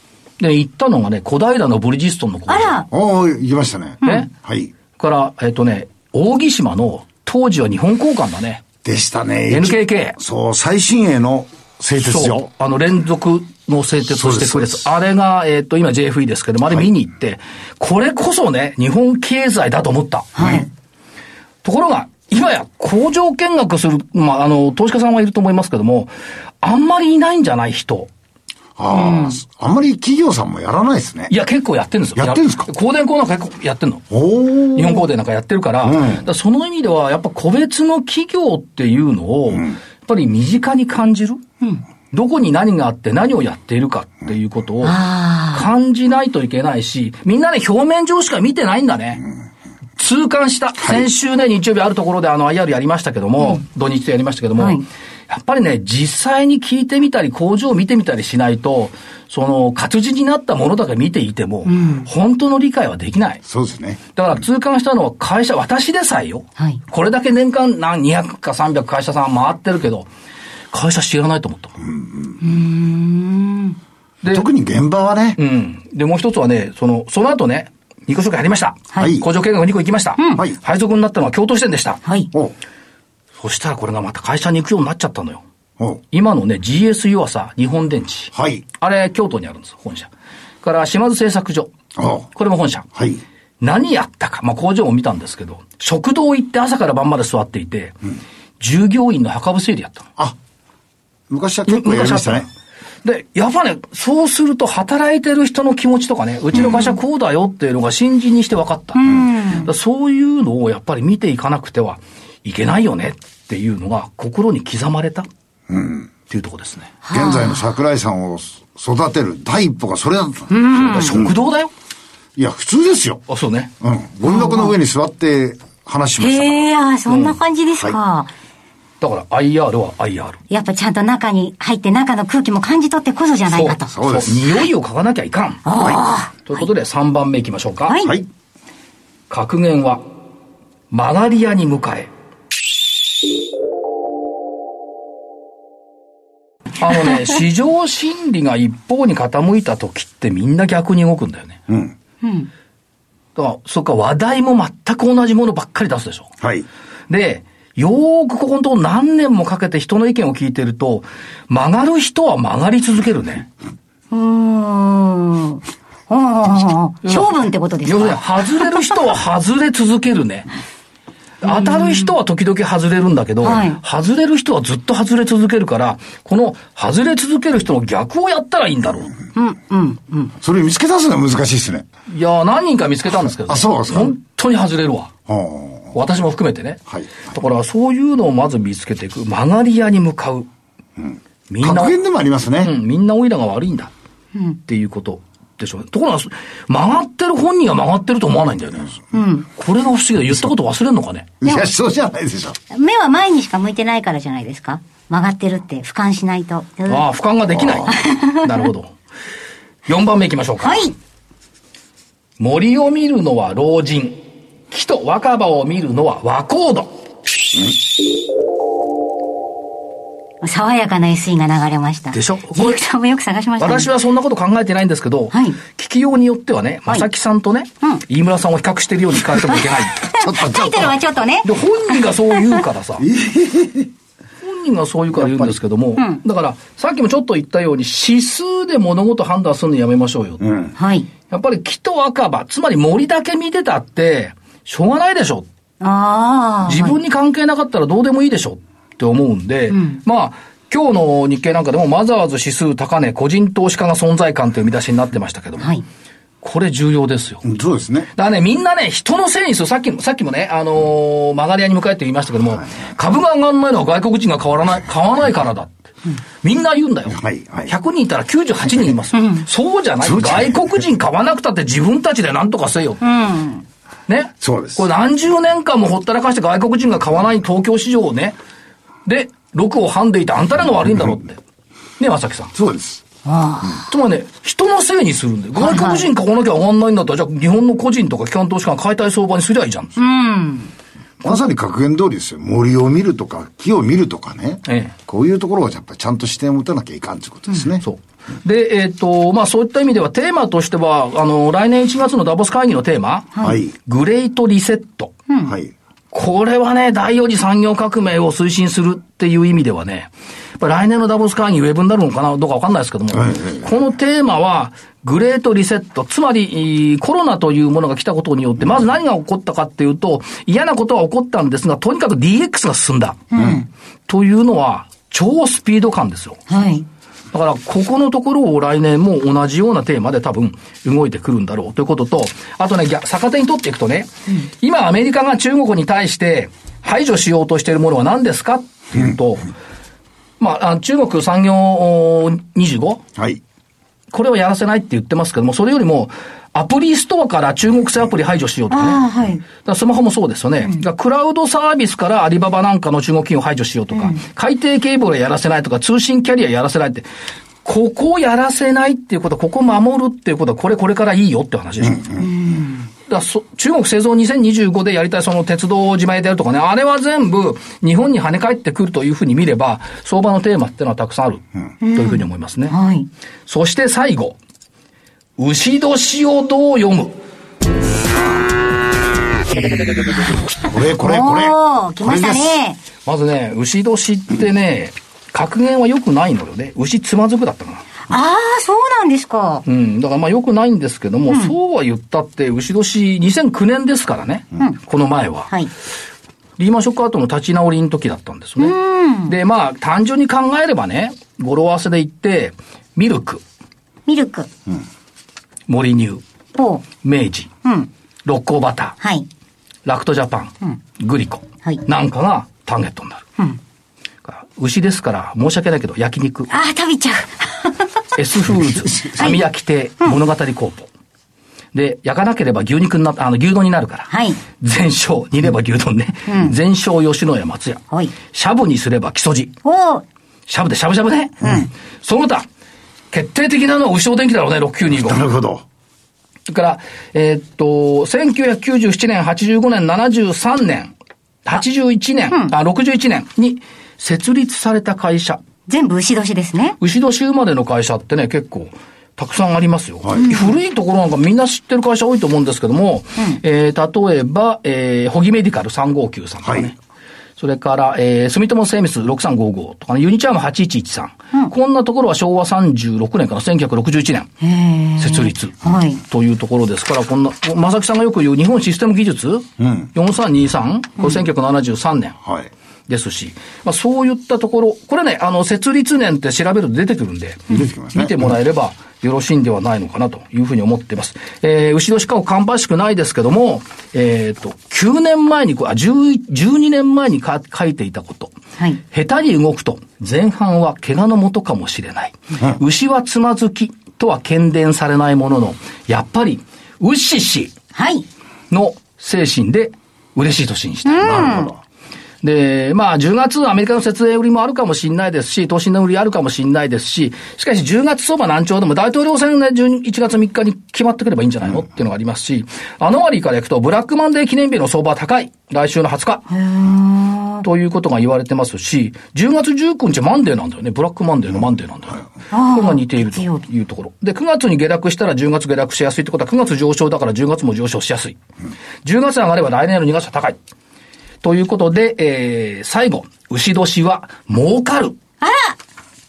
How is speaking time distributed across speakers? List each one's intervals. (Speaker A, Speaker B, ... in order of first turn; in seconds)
Speaker A: 0.4-2.8, 4.0-4.3, 5.0-8.6, 9.5-10.2, 12.0-20.4, 21.6-28.1, 31.3-34.1, 34.7-41.4, 42.1-49.2, 50.0-63.4, 64.1-70.1, 70.7-71.8, 75.4-82.0, 83.4-85.4, 86.1-90.1, 90.6-91.7, 92.3-92.9, 93.6-98.0, 98.6-100.0, 101.7-102.5, 103.0-109.0, 109.6-115.3, 116.3-116.9, 120.8-121.7, 123.3-123.7, 127.1-127.4, 129.0-130.4, 133.5-135.7, 136.4-138.0, 139.3-140.0, 140.9-142.1, 146.8-151.6, 153.3-156.3, 157.1-163.5, 167.0-170.5, 171.4-179.1, 182.1-185.1, 185.9-190.5, 191.5-191.9, 192.6-193.9, 194.7-199.0, 199.5-201.3, 206.9-208.9, 209.8-210.9, 212.4-214.2, 214.7-216.9, 222.1-222.8, 223.6-230.0, 231.4-233.1, 234.4-240.4, 241.3-245.5, 246.6-255.7, 256.4-257.4, 258.1-265.8, 266.4-273.0, 274.1-278.4, 279.1-281.4, 282.0-282.5, 283.9-290.0, 294.6-294.9, 297.8-305.1, 306.1-323.2, 324.1-326.4, 327.3-339.5, 340.4-343.0, 344.1-357.1, 357.6-362.2, 363.1-372.7, 373.5-374.4, 375.4-377.1, 383.0-387.8, 389.6-395.5, 396.6-403.4, 405.7-406.2, 407.0-407.5, 408.2-408.9, 409.9-413.2, 414.2-416.5, 418.1-420.9, 421.7-429.6, 430.5-432.5, 433.1-435.2, 436.5-440.9, 441.4-445.4, 446.8-456.8, 457.4-464.3, 465.0-472.2, 472.9-488.3, 488.9-497.5, 498.5-501.3, 502.2-516.2, 517.4-528.2, 528.8-530.4, 531.2-535.0
Speaker B: 2.5-2.9, 20.4-20.6, 28.9-29.4, 44.8-45.7, 54.6-54.8, 61.7-62.1, 72.4-73.8, 80.2-80.4, 82.0-82.3, 108.9-109.7, 117.0-117.7, 120.5-121.2, 124.2-124.7, 126.2-128.3, 130.5-133.9, 135.6-136.5, 137.9-138.1, 152.2-152.5, 164.1-168.9, 171.4-172.1, 173.4-173.8, 179.3-180.3, 199.1-199.4, 201.4-201.7, 202.7-207.0, 208.0-208.3, 210.6-210.9, 220.4-223.9, 225.3-225.6, 229.5-231.5, 240.8-241.1, 245.8-246.9, 249.7-250.0, 269.1-269.4, 273.0-273.6, 283.2-283.8, 285.6-286.0, 290.0-290.7, 323.3-323.6, 326.5-326.9, 348.7-349.4, 362.2-362.9, 371.8-373.1, 381.0-382.8, 388.1-389.6, 398.6-399.3, 404.1-404.5, 406.6-406.9, 409.0-409.3, 416.5-417.9, 419.1-419.4, 424.1-424.4, 426.3-426.5, 429.6-430.0, 445.7-446.8, 450.2-450.4, 464.4-466.0, 497.7-498.1, 500.8-501.5, 516.3-517.4, 522.3-523.4, 535.2-535.5
Speaker C: 2.9-4.7, 8.8-12.5, 14.1-14.8, 20.4-20.7, 28.8-31.3, 32.1-32.7, 34.1-35.0, 35.8-36.2, 63.4-64.0, 71.8-72.4, 74.3-75.4, 79.0-79.3, 88.3-88.6, 92.0-92.3, 92.9-93.2, 101.3-102.5, 115.7-116.1, 117.1-121.3, 122.3-123.2, 123.8-126.7, 133.8-134.4, 135.8-136.0, 138.0-138.3, 151.7-151.9, 156.4-156.7, 180.4-181.8, 183.5-184.1, 185.3-185.9, 186.9-187.3, 191.0-192.7, 201.4-202.6, 207.5-207.9, 230.1-231.0, 233.0-233.9, 235.2-235.5, 240.4-240.7, 257.4-258.1, 267.1-267.7, 270.0-270.8, 274.4-274.8, 282.5-283.0, 291.2-297.8, 303.4-303.7, 305.4-305.7, 313.1-313.7, 323.3-323.6, 343.1-343.4, 379.6-382.6, 418.9-419.4, 434.9-435.6, 450.0-450.3, 456.4-456.7, 469.6-469.9, 472.2-472.5, 477.5-478.4, 501.0-501.6